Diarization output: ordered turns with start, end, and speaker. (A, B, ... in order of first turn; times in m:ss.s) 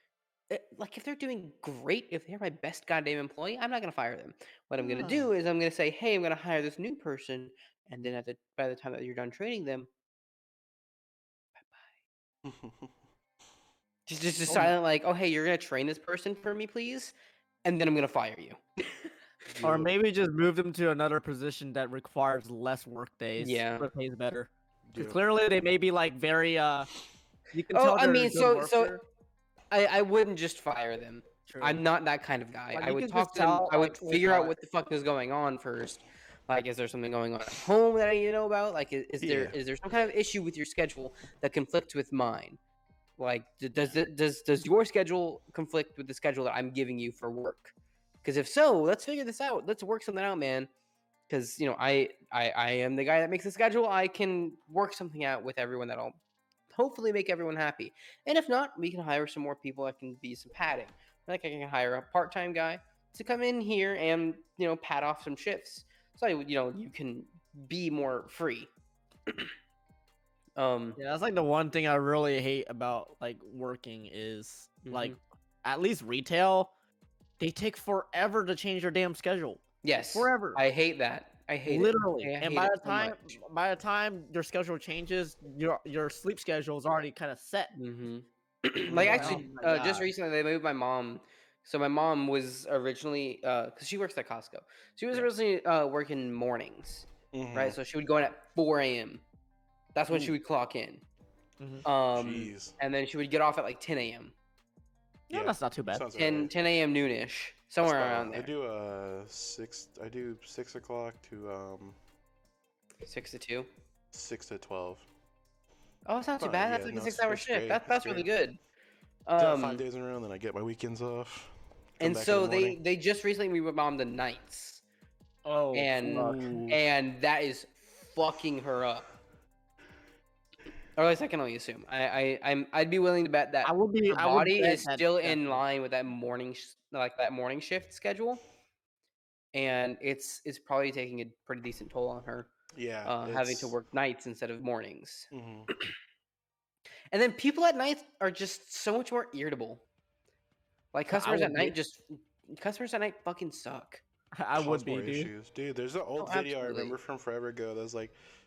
0:00.5-0:09.9 A
0:04.8-0:05.3 B
0:11.6-0:11.9 A
0:12.4-0:12.9 C
0:14.1-0:18.6 A
0:19.5-0:19.9 C
0:19.6-0:26.9 B
0:23.4-0:23.9 A
0:24.9-0:25.2 C
0:27.5-0:29.0 B
0:27.7-0:29.0 A
0:29.7-0:42.6 A
0:31.5-0:31.8 B
0:32.7-0:34.5 B
0:39.2-0:39.6 C
0:43.2-0:50.7 A
0:51.3-0:56.2 A
0:56.7-1:08.7 A
1:10.6-1:11.0 A
1:11.0-1:16.7 B
1:14.8-1:15.2 A
1:17.4-1:20.6 B
1:19.8-1:23.2 A
1:21.7-1:27.7 B
1:27.7-1:39.2 A
1:28.9-1:29.5 C
1:28.9-1:30.1 B
1:37.3-1:37.8 C
1:40.0-1:41.0 A
1:41.6-1:41.9 B
1:41.8-1:44.4 A
1:42.2-1:42.8 C
1:45.3-1:46.1 B
1:45.3-1:46.5 C
1:46.2-1:48.5 A
1:47.8-1:52.0 C
1:53.0-1:53.7 A
1:54.1-1:55.1 C
1:56.1-1:58.6 A
1:56.4-1:58.3 C
1:59.3-1:59.8 A
1:59.4-2:02.8 C
2:02.0-2:04.8 A
2:05.4-2:06.7 B
2:05.7-2:09.1 A
2:06.2-2:06.7 C
2:11.0-2:18.4 A
2:13.6-2:15.6 B
2:19.5-2:22.5 A
2:22.7-2:23.8 C
2:23.1-2:25.3 A
2:25.3-2:25.7 C
2:27.1-2:29.8 A
2:30.9-2:34.0 A
2:31.1-2:31.8 B
2:34.3-2:35.3 B
2:34.6-2:38.2 C
2:36.2-2:36.9 A